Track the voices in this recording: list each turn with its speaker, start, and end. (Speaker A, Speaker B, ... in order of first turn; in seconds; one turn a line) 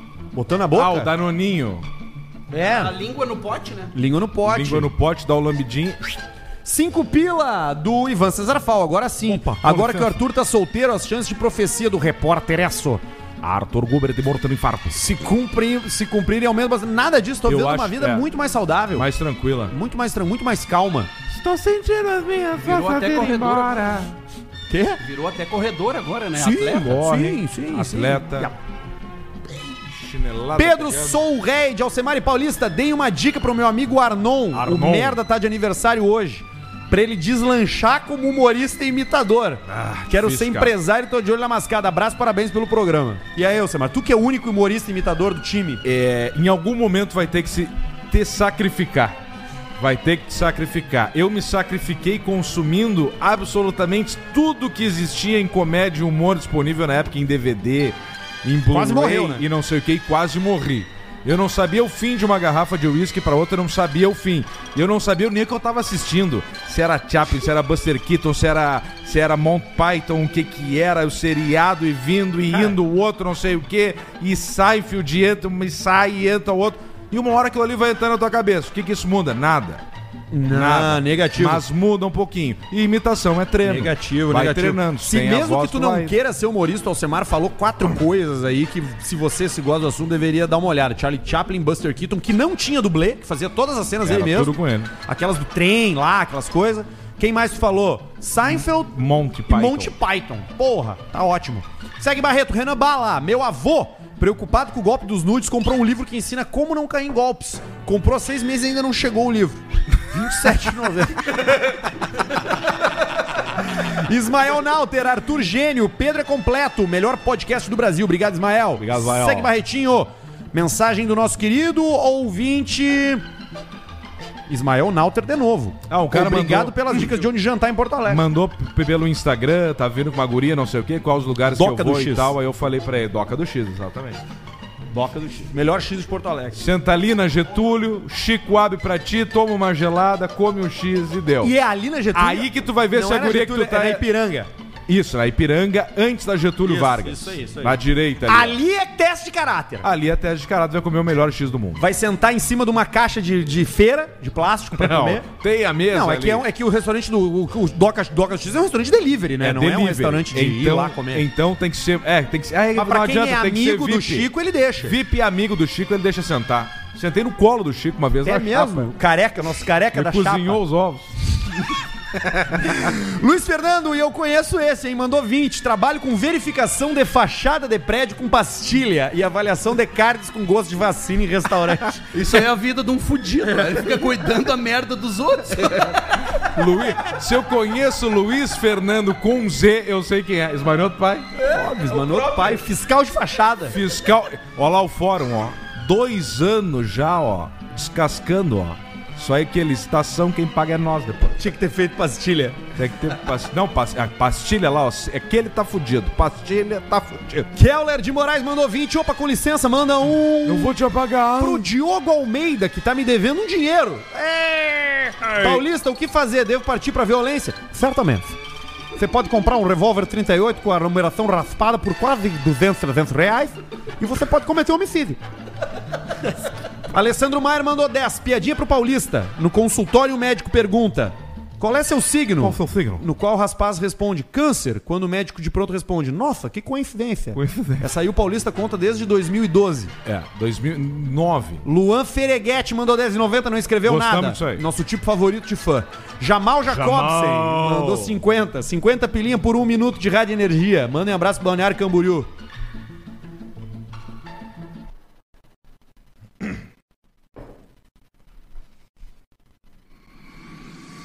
Speaker A: 0.3-1.1
Speaker B: 0.7-1.9
Speaker A: 2.5-3.0
Speaker C: 2.5-3.9
Speaker A: 3.9-4.9
Speaker B: 4.5-6.2
Speaker A: 6.7-13.0
Speaker B: 9.3-10.2
Speaker B: 13.4-15.1
Speaker A: 14.9-19.1
Speaker B: 17.4-18.3
Speaker B: 18.9-19.7
Speaker A: 19.7-21.1
Speaker B: 21.3-24.1
Speaker C: 22.6-24.1
Speaker A: 24.7-25.0
Speaker C: 25.0-26.9
Speaker A: 26.4-28.6
Speaker B: 26.4-28.5
Speaker B: 29.5-31.2
Speaker A: 30.6-45.8
Speaker B: 34.5-35.2
Speaker B: 39.7-40.7
Speaker B: 45.8-49.2
Speaker B: 49.8-79.8
Speaker A: 58.7-59.5
Speaker A: 80.3-81.6
Speaker B: 80.5-86.2
Speaker A: 83.6-111.5
Speaker B: 94.0-94.9
Speaker B: 98.9-100.0
Speaker A: 113.8-123.2
Speaker B: 118.8-119.5
Speaker A: 124.5-128.2
Speaker B: 125.9-127.2
Speaker B: 128.1-134.2
Speaker A: 131.5-132.3
Speaker A: 134.9-136.7
Speaker B: 136.5-141.5
Speaker A: 141.4-144.5
Speaker B: 142.1-144.1
Speaker B: 144.9-148.6
Speaker A: 146.6-149.9
Speaker B: 149.8-151.8
Speaker A: 151.8-155.3
Speaker B: 154.8-156.4
Speaker A: 155.9-161.3
Speaker B: 159.4-164.3
Speaker A: 162.8-165.0
Speaker B: 164.8-168.9
Speaker A: 168.2-170.6
Speaker B: 169.9-171.2
Speaker A: 172.5-182.0
Speaker C: 182.1-186.1
Speaker B: 182.1-182.5
Speaker B: 186.4-191.3
Speaker A: 191.5-193.8
Speaker B: 191.9-192.5
Speaker B: 193.7-201.4
Speaker A: 201.4-202.6
Speaker B: 202.8-207.5
Speaker A: 207.5-210.7
Speaker B: 210.4-211.7
Speaker A: 211.4-218.4
Speaker B: 215.2-215.6
Speaker A: 218.9-225.2
Speaker A: 226.9-239.9
Speaker B: 232.4-233.1
Speaker B: 237.3-237.9
Speaker B: 240.1-241.6
Speaker A: 241.6-252.3
Speaker B: 243.8-244.6
Speaker B: 246.7-248.2